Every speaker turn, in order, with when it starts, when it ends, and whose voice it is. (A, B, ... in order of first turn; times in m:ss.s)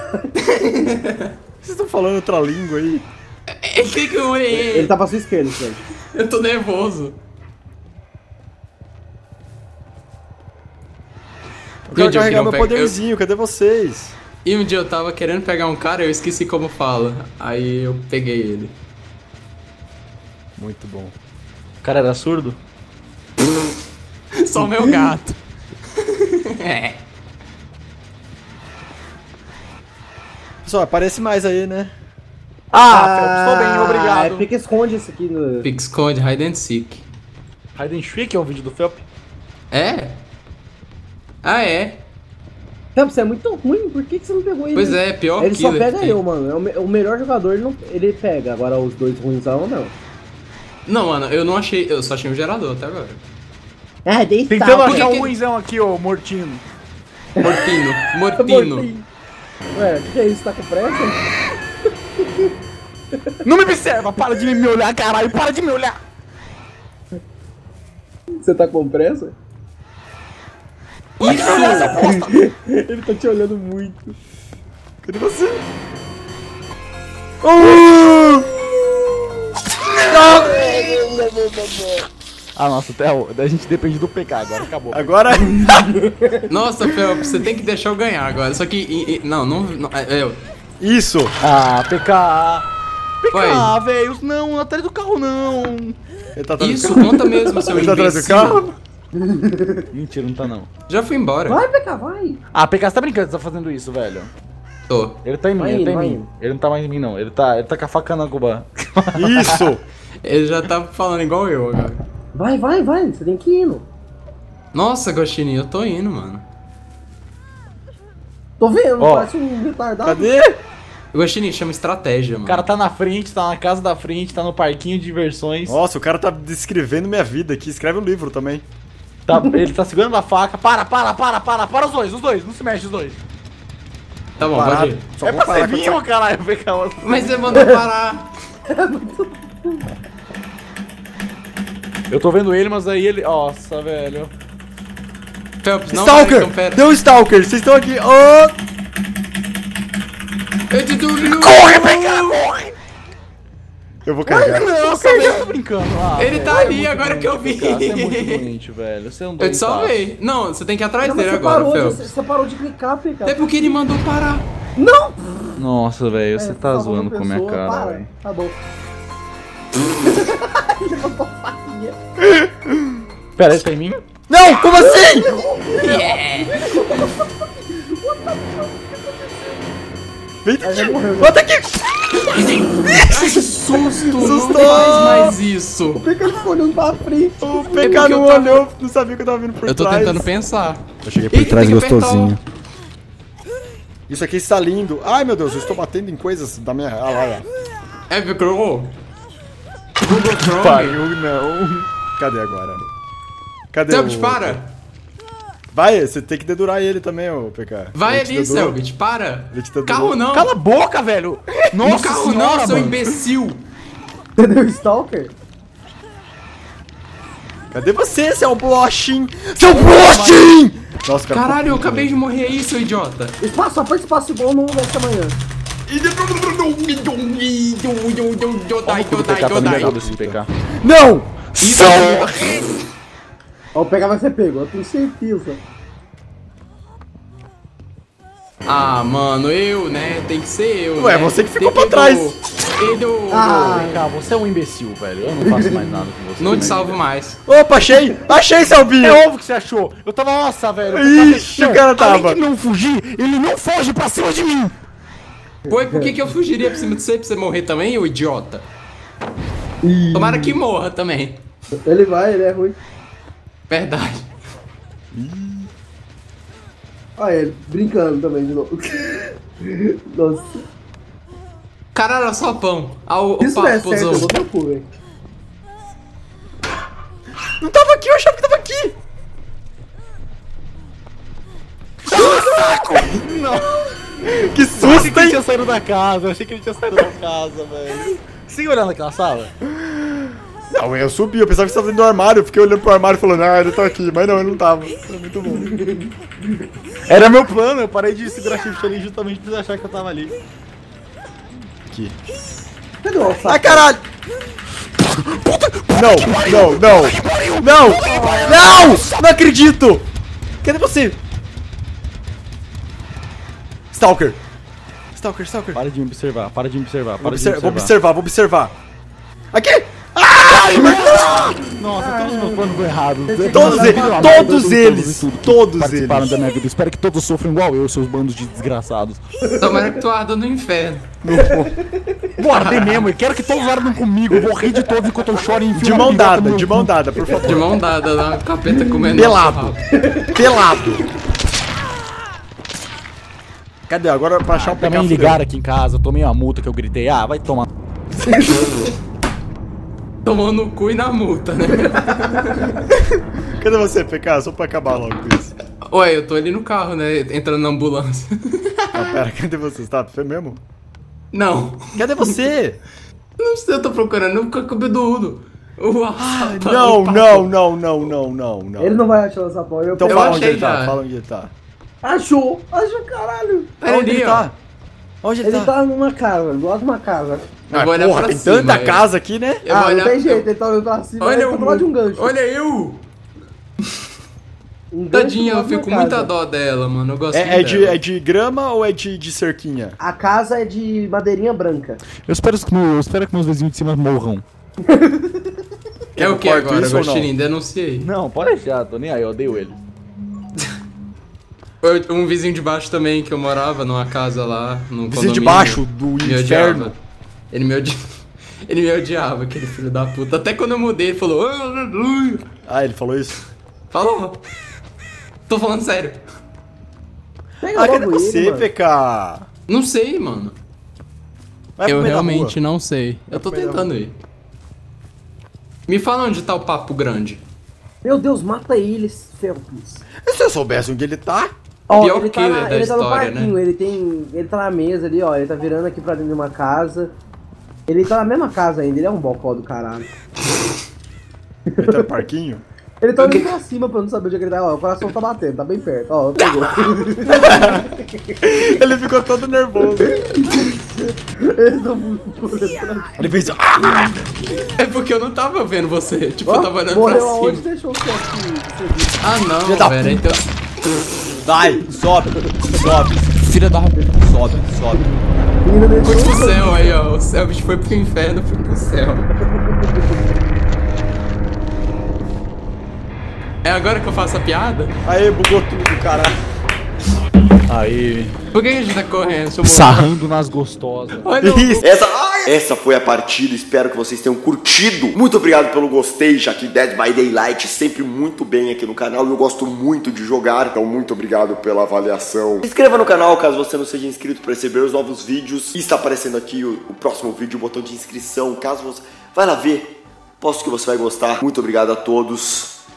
0:00.4-0:01.3 A
0:01.6-0:03.0 B
0:03.6-0:05.0 A
0:04.5-0:05.8 C
0:06.0-0:07.2 A
0:11.9-0:14.2 B
0:11.9-0:12.9 A
0:14.4-0:18.8 A
0:20.6-0:21.1 B
0:21.8-0:22.6 D
0:24.4-0:25.4 A
0:26.0-0:27.0 A
0:30.6-0:31.9 B
0:32.7-0:34.5 D
0:32.9-0:35.7 C
0:35.6-0:37.0 A
0:37.8-0:39.0 D
0:39.7-0:40.2 A
0:41.4-0:42.0 A
0:42.9-0:49.9 C
0:44.7-0:46.2 A
0:50.9-0:53.2 A
0:54.0-0:55.1 C
0:54.5-0:56.6 D
0:54.8-0:55.3 A
0:57.4-0:57.6 C
0:57.4-0:58.9 A
0:58.4-0:59.0 C
0:59.7-1:01.4 C
1:02.2-1:02.5 C
1:03.4-1:06.0 D
1:08.4-1:09.4 C
1:11.2-1:12.0 A
1:11.4-1:12.3 D
1:11.6-1:14.2 C
1:15.0-1:15.6 B
1:17.4-1:18.6 B
1:20.1-1:21.3 B
1:22.6-1:25.1 D
1:24.9-1:25.8 B
1:25.6-1:26.5 C
1:26.5-1:30.4 A
1:30.8-1:31.3 B
1:31.4-1:32.6 D
1:33.2-1:36.0 D
1:33.3-1:33.7 A
1:36.4-1:38.8 B
1:36.6-1:38.6 A
1:39.1-1:39.9 C
1:39.9-1:40.7 D
1:40.9-1:41.6 A
1:41.5-1:42.4 C
1:42.5-1:44.3 D
1:44.9-1:45.2 A
1:45.2-1:49.6 D
1:45.6-1:46.3 C
1:49.2-1:49.8 B
1:50.2-1:52.0 A
1:52.3-1:53.9 C
1:54.7-1:56.4 A
1:58.6-2:00.3 C
1:59.0-1:59.3 D
2:00.0-2:00.6 B
2:01.1-2:02.6 A
2:02.5-2:05.8 D
2:05.7-2:08.6 B
2:09.3-2:13.2 D
2:09.3-2:09.6 C
2:14.4-2:15.1 A
2:14.4-2:16.0 B
2:15.2-2:17.7 D
2:17.0-2:18.3 A
2:18.7-2:19.8 C
2:22.1-2:24.3 D
2:25.6-2:26.8 A
2:25.9-2:28.6 B
2:30.7-2:32.4 A
2:31.2-2:32.7 D
2:34.0-2:34.7 B
2:34.2-2:35.5 C
2:34.5-2:40.0 D
2:36.2-2:38.5 A
2:39.4-2:42.1 A
2:41.0-2:43.7 C
2:43.2-2:44.5 A
2:44.8-2:45.4 C
2:45.6-2:48.1 D
2:46.4-2:48.6 C
2:50.0-2:52.0 C
2:52.2-2:53.0 B
2:53.4-2:54.0 D
2:54.3-2:55.3 B
2:54.8-2:59.6 C
2:55.8-2:57.0 A
3:00.4-3:03.1 B
3:00.6-3:01.4 C
3:03.0-3:06.0 A
3:04.0-3:05.3 B
3:05.9-3:08.1 C
3:07.4-3:10.3 B
3:07.8-3:08.6 A
3:09.6-3:12.4 A
3:11.0-3:12.4 B
3:14.1-3:17.5 B
3:18.1-3:19.0 A
3:20.0-3:21.0 A
3:20.1-3:21.9 D
3:22.2-3:22.8 B
3:23.7-3:24.6 B
3:23.9-3:24.7 A
3:25.7-3:28.8 B
3:27.9-3:30.5 A
3:29.5-3:30.2 B
3:30.3-3:33.1 D
3:31.7-3:33.6 A
3:34.4-3:35.3 C
3:37.7-3:42.2 B
3:39.6-3:40.4 D
3:41.3-3:43.4 A
3:43.4-3:45.4 C
3:45.9-3:46.8 B
3:46.2-3:50.0 A
3:48.9-3:50.5 D
3:49.4-3:51.9 B
3:51.6-3:52.7 A
3:51.6-3:52.3 D
3:53.7-3:55.6 C
3:58.6-4:03.8 A
4:01.0-4:02.3 B
4:03.3-4:04.0 C
4:03.6-4:07.0 D
4:05.4-4:06.0 C
4:06.4-4:07.4 A
4:07.4-4:09.2 B
4:09.0-4:14.7 D
4:10.9-4:12.4 B
4:15.7-4:18.6 A
4:15.7-4:16.1 C
4:19.8-4:20.6 C
4:20.1-4:21.4 A
4:21.8-4:22.8 C
4:23.7-4:24.3 A
4:25.2-4:25.7 B
4:27.2-4:30.6 C
4:31.9-4:34.4 A
4:33.4-4:34.9 C
4:37.6-4:38.9 B
4:42.1-4:43.9 D
4:42.1-4:43.0 B
4:44.3-4:45.4 B
4:44.7-4:49.5 D
4:50.7-4:55.7 B
4:55.6-4:56.1 C
4:57.1-5:00.3 D
5:01.9-5:02.1 B
5:03.0-5:03.9 C
5:03.4-5:04.0 B
5:05.2-5:09.1 D
5:05.9-5:10.0 B
5:10.6-5:11.2 B
5:13.9-5:14.4 B
5:15.2-5:15.8 B
5:15.7-5:17.9 D
5:17.2-5:18.7 B
5:19.5-5:21.4 B
5:20.4-5:29.2 D
5:21.9-5:24.5 C
5:23.5-5:26.3 B
5:29.4-5:29.9 C
5:29.5-5:31.1 A
5:31.2-5:31.7 B
5:31.3-5:32.3 C
5:32.4-5:36.9 D
5:32.5-5:33.1 A
5:35.7-5:37.7 B
5:37.4-5:39.8 A
5:39.1-5:39.8 B
5:39.9-5:40.4 C
5:40.3-5:41.1 B
5:43.9-5:45.4 B
5:44.6-5:47.6 D
5:50.2-5:52.8 A
5:53.5-5:55.5 B
5:55.9-5:59.0 A
5:58.9-6:00.6 B
6:01.3-6:02.3 A
6:01.9-6:02.8 B
6:03.4-6:07.6 A
6:06.2-6:09.0 B
6:08.8-6:10.5 C
6:09.9-6:11.5 B
6:10.1-6:11.0 A
6:12.0-6:13.7 C
6:13.8-6:14.5 A
6:13.8-6:14.6 B
6:15.2-6:15.7 B
6:15.4-6:17.4 C
6:17.7-6:19.6 B
6:17.7-6:19.1 A
6:19.6-6:20.5 A
6:19.7-6:22.3 C
6:21.2-6:23.1 A
6:24.9-6:26.3 C
6:25.1-6:28.0 A
6:27.3-6:30.0 B
6:30.0-6:32.0 C
6:32.2-6:34.4 D
6:34.9-6:35.4 C
6:36.2-6:37.3 B
6:36.2-6:38.1 A
6:38.0-6:39.8 D
6:41.8-6:47.0 A
6:45.1-6:46.9 B
6:47.5-6:48.0 A
6:48.6-6:52.4 A
6:52.6-6:53.4 B
6:53.9-6:54.4 A
6:55.5-6:56.2 A
6:57.6-6:58.7 C
6:57.6-6:59.5 B
6:59.7-7:00.6 A
7:01.8-7:02.6 B
7:01.8-7:04.2 A
7:03.3-7:03.9 B
7:05.9-7:07.4 A
7:08.0-7:10.0 C
7:10.2-7:11.5 B
7:11.9-7:17.2 C
7:11.9-7:13.6 A
7:17.9-7:20.2 C
7:21.7-7:22.0 C
7:21.8-7:22.6 B
7:23.0-7:28.3 C
7:23.2-7:23.4 A
7:27.3-7:30.5 B
7:30.0-7:34.1 C
7:33.2-7:34.6 B
7:34.8-7:37.6 A
7:36.4-7:39.2 C
7:39.2-7:40.5 A
7:39.6-7:40.4 B
7:41.4-7:45.0 B
7:42.4-7:42.9 C
7:44.9-7:46.9 C
7:46.0-7:49.3 A
7:49.5-7:50.0 C
7:53.6-7:54.9 A
7:55.0-7:56.4 B
7:57.7-7:58.4 D
7:58.5-8:00.1 A
7:59.6-8:01.4 D
8:01.2-8:01.9 A
8:01.4-8:01.9 B
8:01.8-8:22.8 E